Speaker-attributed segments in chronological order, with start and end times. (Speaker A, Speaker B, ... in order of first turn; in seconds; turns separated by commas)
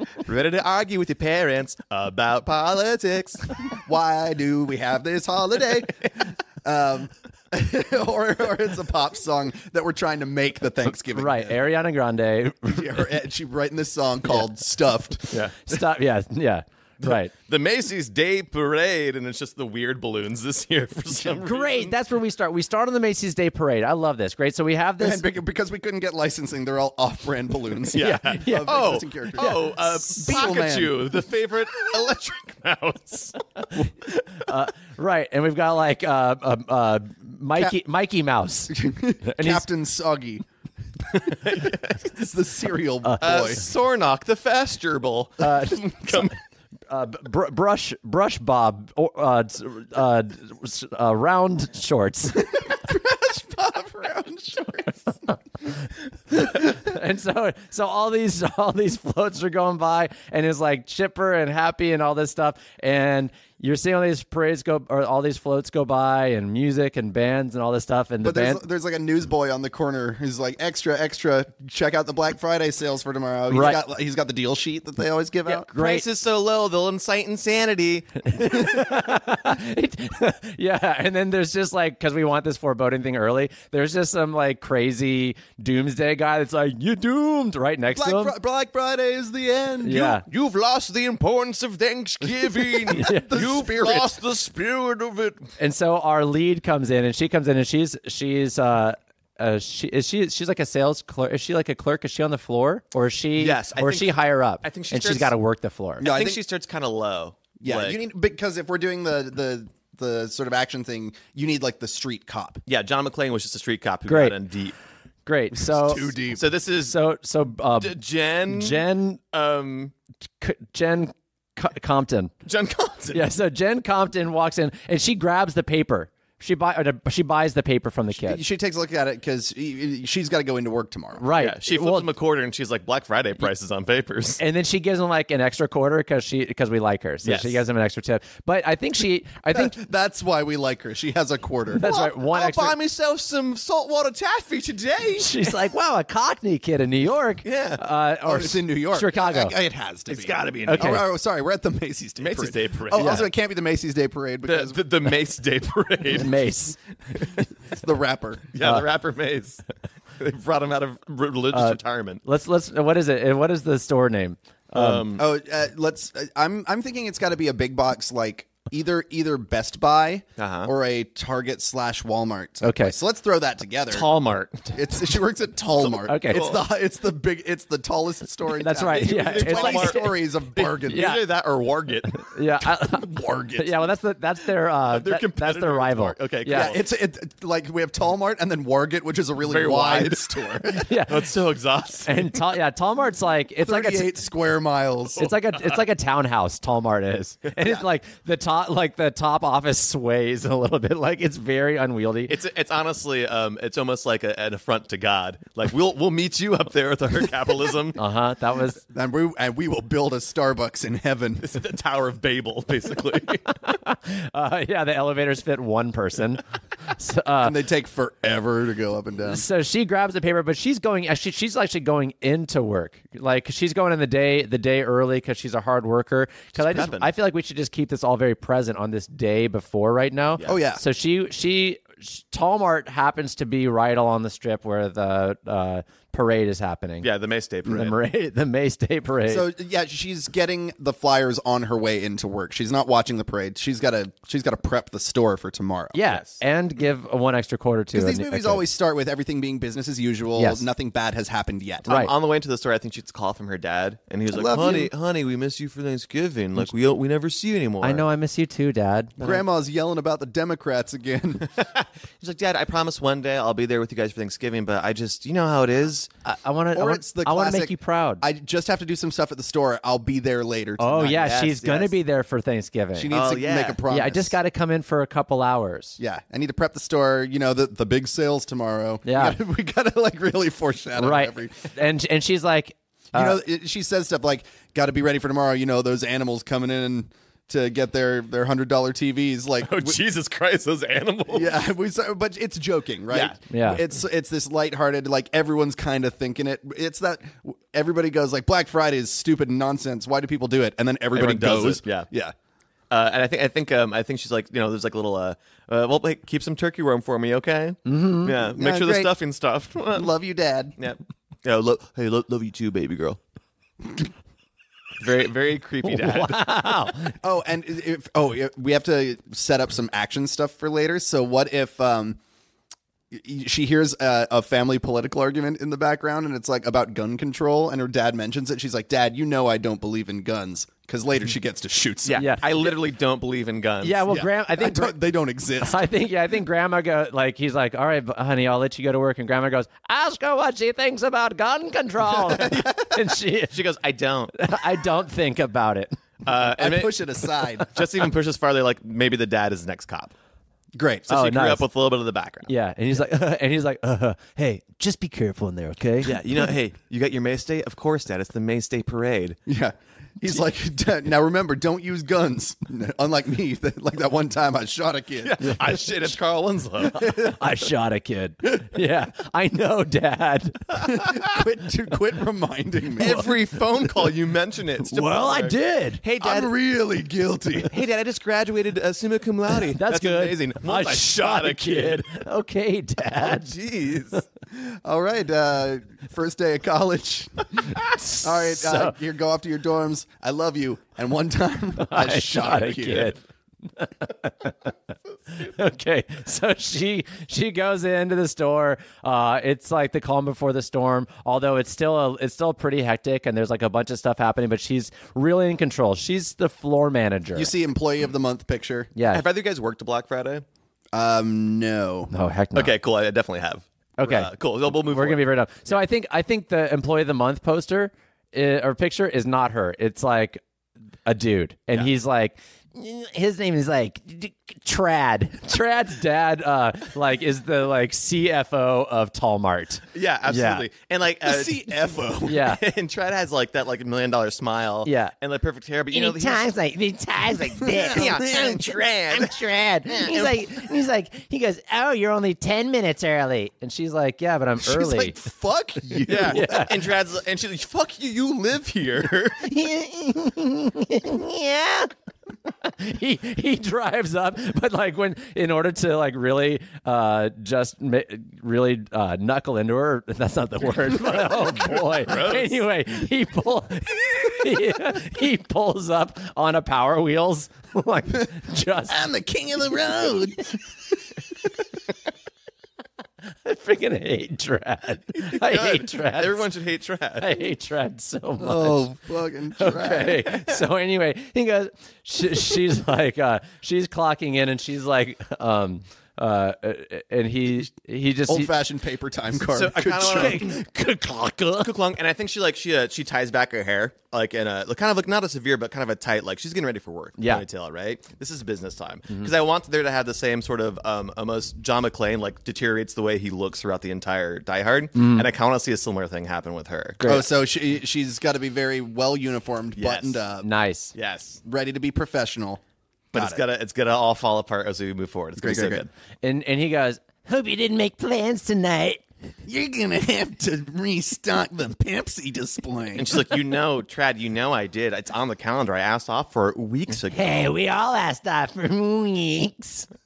Speaker A: 0.2-3.6, Speaker B: 3.8-11.6, Speaker C: 11.1-13.0, Speaker B: 12.7-15.8, Speaker C: 15.7-17.3, Speaker A: 17.0-21.9, Speaker C: 21.4-25.2, Speaker B: 25.0-31.1, Speaker A: 27.9-33.4, Speaker C: 27.9-29.7, Speaker C: 34.4-39.6, Speaker B: 38.7-40.4, Speaker B: 41.3-43.6, Speaker A: 41.4-42.0, Speaker C: 43.0-43.5, Speaker A: 43.2-46.3, Speaker C: 45.4-46.3, Speaker C: 46.9-52.6, Speaker B: 52.4-55.2, Speaker C: 56.3-68.6, Speaker B: 68.2-75.7, Speaker C: 73.5-73.8, Speaker C: 75.6-76.0, Speaker A: 75.7-78.6, Speaker C: 78.3-88.3, Speaker B: 87.9-90.1, Speaker C: 89.8-90.2, Speaker A: 89.9-95.5, Speaker B: 92.6-94.2, Speaker C: 92.9-93.3, Speaker C: 95.6-106.1, Speaker A: 103.4-105.3, Speaker B: 106.0-106.4, Speaker A: 106.0-108.0, Speaker B: 107.6-112.6, Speaker A: 112.7-114.7, Speaker C: 114.1-114.4, Speaker C: 115.2-116.2, Speaker B: 115.6-116.5, Speaker A: 116.3-117.0, Speaker C: 116.8-118.0, Speaker A: 117.8-119.9, Speaker C: 118.5-119.2, Speaker C: 120.4-122.3, Speaker A: 122.4-123.2, Speaker C: 123.1-128.4, Speaker B: 128.2-131.2, Speaker C: 131.2-132.1, Speaker A: 131.4-134.4, Speaker C: 134.4-139.8, Speaker A: 137.2-137.6, Speaker B: 139.5-141.9, Speaker C: 141.7-142.7, Speaker A: 141.9-145.5, Speaker C: 145.2-149.5, Speaker A: 147.4-147.8, Speaker B: 148.2-154.8, Speaker A: 150.1-151.0, Speaker C: 150.7-151.0, Speaker A: 152.2-153.2, Speaker C: 152.9-153.2, Speaker A: 154.4-156.4, Speaker C: 156.1-156.8, Speaker A: 157.1-157.5, Speaker B: 157.7-158.5, Speaker A: 158.5-159.6, Speaker C: 158.6-158.8, Speaker A: 160.2-162.2, Speaker C: 161.5-165.0, Speaker A: 164.7-165.2, Speaker B: 165.2-174.1, Speaker A: 170.4-170.7, Speaker C: 172.6-172.9, Speaker A: 173.9-175.0, Speaker B: 174.7-181.2, Speaker A: 175.8-176.6, Speaker C: 176.0-176.5, Speaker C: 178.5-180.1, Speaker A: 179.0-182.3, Speaker C: 180.9-181.2, Speaker C: 182.2-186.7, Speaker B: 182.8-183.9, Speaker A: 184.8-186.8, Speaker B: 186.5-190.9, Speaker A: 189.4-192.5, Speaker C: 190.7-191.3, Speaker C: 192.1-194.1, Speaker B: 193.6-195.3, Speaker C: 195.2-202.3, Speaker A: 195.2-195.8, Speaker A: 202.3-208.0, Speaker C: 207.9-208.8, Speaker B: 208.9-211.5, Speaker A: 211.4-213.4, Speaker C: 213.6-217.6, Speaker B: 217.4-219.4, Speaker C: 219.3-237.1, Speaker A: 226.5-227.1, Speaker B: 230.4-230.8, Speaker A: 237.0-237.9, Speaker C: 237.7-239.4, Speaker B: 239.3-246.0, Speaker C: 245.9-248.6, Speaker A: 246.0-246.4, Speaker B: 247.9-252.0, Speaker C: 250.3-250.6, Speaker A: 251.8-258.1, Speaker C: 251.8-252.1, Speaker B: 254.3-254.9, Speaker C: 257.8-259.1, Speaker B: 259.2-261.5, Speaker A: 261.5-266.1, Speaker C: 266.2-268.2, Speaker B: 266.7-271.9, Speaker C: 270.8-273.1, Speaker B: 272.9-274.3, Speaker A: 273.1-273.8, Speaker C: 273.9-276.0, Speaker B: 276.0-281.6, Speaker C: 279.0-279.4, Speaker C: 281.0-283.4, Speaker B: 283.1-290.0, Speaker A: 289.6-291.6, Speaker B: 291.3-302.3, Speaker A: 293.1-293.4, Speaker C: 293.5-293.8, Speaker A: 301.1-302.1, Speaker A: 302.9-310.1, Speaker C: 307.9-308.3, Speaker B: 308.4-309.1, Speaker B: 309.9-310.7, Speaker A: 310.8-313.2, Speaker A: 315.0-316.6, Speaker C: 315.8-317.1, Speaker B: 317.2-322.2, Speaker B: 323.1-332.3, Speaker A: 332.0-334.1, Speaker C: 332.1-332.5, Speaker C: 333.8-335.0, Speaker B: 334.1-335.8, Speaker C: 335.6-343.5, Speaker A: 342.4-344.3, Speaker C: 344.3-346.0, Speaker A: 346.2-347.1, Speaker B: 346.4-347.7, Speaker A: 347.7-350.1, Speaker B: 350.7-351.1, Speaker A: 351.1-352.5, Speaker C: 351.1-351.6, Speaker C: 352.5-356.1, Speaker A: 356.0-359.4, Speaker B: 359.5-365.6, Speaker A: 365.2-367.4, Speaker C: 366.9-370.8, Speaker B: 370.8-373.3, Speaker A: 372.9-376.5, Speaker C: 374.8-376.0, Speaker B: 376.2-377.8, Speaker A: 377.7-382.2, Speaker C: 379.7-383.5, Speaker A: 383.2-384.2, Speaker B: 384.5-393.1, Speaker C: 387.7-388.9, Speaker C: 391.8-393.2, Speaker C: 393.8-394.7, Speaker C: 395.3-407.5, Speaker B: 407.3-408.9, Speaker C: 408.9-409.2, Speaker A: 409.1-410.4, Speaker B: 410.9-412.1, Speaker C: 412.1-412.7, Speaker A: 412.5-415.8, Speaker C: 414.0-420.4, Speaker C: 421.1-430.6, Speaker A: 429.9-436.5, Speaker B: 431.2-432.4, Speaker C: 432.2-432.6, Speaker C: 434.8-435.1, Speaker C: 435.9-438.5, Speaker A: 437.6-440.6, Speaker B: 437.6-438.8, Speaker C: 439.1-445.1, Speaker B: 444.6-446.9, Speaker A: 446.1-449.4, Speaker C: 446.1-446.7, Speaker C: 449.4-451.9, Speaker C: 452.5-469.1, Speaker A: 461.1-462.6, Speaker B: 468.9-470.6, Speaker C: 473.4-476.4, Speaker A: 475.2-477.4, Speaker C: 477.2-478.9, Speaker B: 478.4-480.2, Speaker C: 479.6-488.5, Speaker B: 488.3-490.5, Speaker A: 489.5-490.6, Speaker C: 489.9-491.7, Speaker A: 491.6-507.0, Speaker C: 497.2-497.4, Speaker C: 504.9-505.2, Speaker C: 507.0-507.3, Speaker B: 507.1-510.5, Speaker A: 509.8-510.2, Speaker C: 510.4-510.9, Speaker A: 510.9-511.4, Speaker B: 511.4-512.6, Speaker A: 513.1-515.9, Speaker B: 513.1-513.4, Speaker B: 515.4-515.8, Speaker C: 516.2-519.0, Speaker B: 519.4-523.2, Speaker A: 522.9-527.4, Speaker C: 527.1-529.9